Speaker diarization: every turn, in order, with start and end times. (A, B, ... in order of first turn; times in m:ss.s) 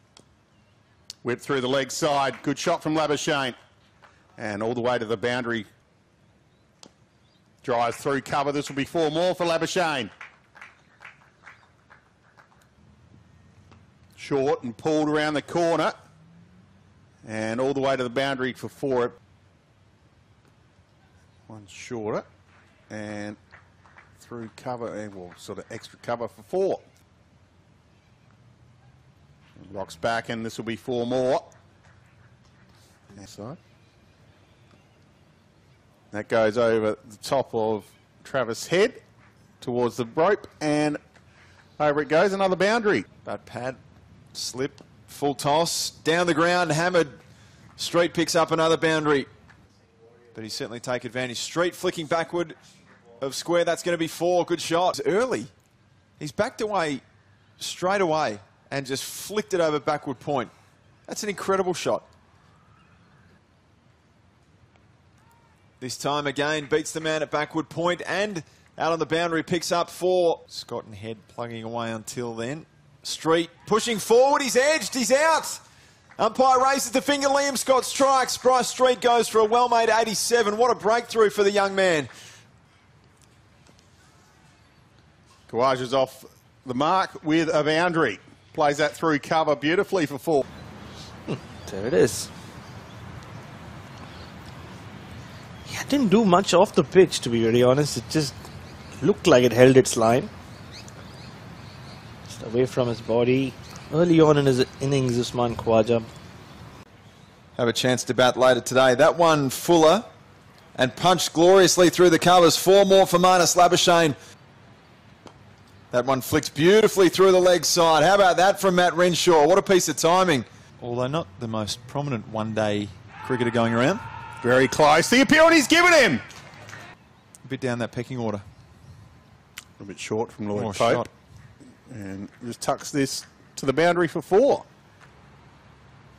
0:01.2-0:03.5 A
0:04.4-0:05.7 A
0:07.6-0:10.1 A
0:14.2-0:15.9 A
0:17.2-0:19.2 A
0:21.5-0:22.2 A
0:22.9-0:23.4 A
0:24.2-0:26.8 A
0:29.6-0:31.5 A
0:33.1-0:33.6 A
0:36.1-0:39.0 A
0:39.6-0:41.0 A
0:41.8-0:43.0 A
0:43.2-0:43.8 B
0:44.3-0:47.1 B
0:47.8-0:49.3 B
0:50.3-0:52.6 B
0:53.2-0:55.5 B
0:56.2-0:57.0 B
0:57.6-1:00.5 B
1:01.1-1:02.0 B
1:05.8-1:15.6 B
1:16.2-1:22.1 B
1:25.5-1:30.4 A
1:31.3-1:32.3 C
1:35.6-1:38.4 C
1:39.0-1:40.3 C
1:42.3-1:46.1 C
1:47.6-1:50.0 B
1:50.8-1:54.2 B
1:55.9-2:04.0 B
2:04.4-2:06.2 A
2:07.4-2:08.4 B
2:09.8-2:11.0 A
2:10.5-2:11.1 B
2:11.9-2:14.6 A